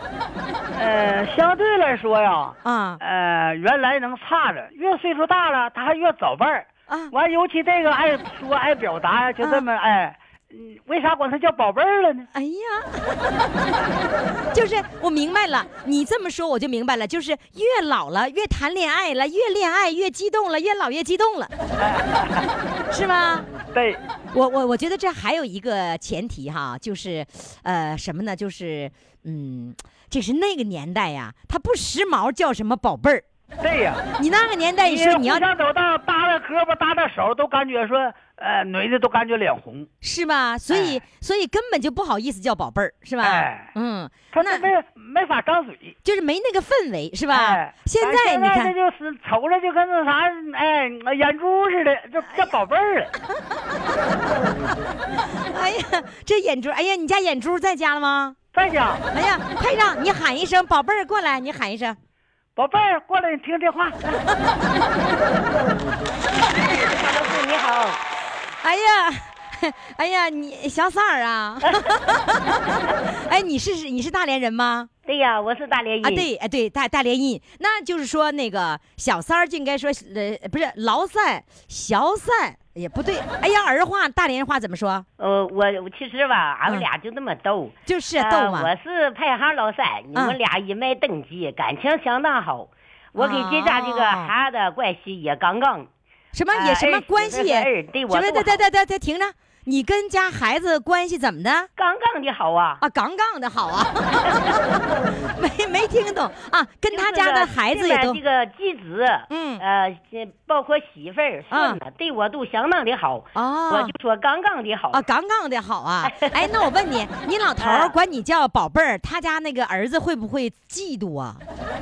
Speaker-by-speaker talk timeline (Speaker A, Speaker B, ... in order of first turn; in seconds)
Speaker A: 0.7-12.3, 21.8-22.5, 23.7-24.0, 33.6-34.0, 34.8-39.9, 40.7-41.0, 43.2-43.7, 44.3-46.0, 47.3-53.1, 58.5-59.0, 62.5-64.2
Speaker B: 2.6-3.0, 6.9-7.1, 9.4-9.7, 12.3-13.8, 14.5-21.5, 22.9-23.5, 24.3-33.2, 34.2-35.5, 40.0-44.6, 46.0-48.7, 53.5-54.1, 55.4-58.4, 59.1-62.0, 68.6-74.9, 76.0-85.0, 87.8-88.7, 93.2-94.3, 96.3-101.7, 102.8-108.2, 109.3-109.6, 111.5-111.8, 113.3-113.9, 114.9-121.4
Speaker C: 66.7-68.0, 75.0-76.3, 85.2-95.9, 96.5-98.6, 101.8-102.8, 104.1-104.6, 106.9-115.0, 116.0-116.5, 117.6-117.9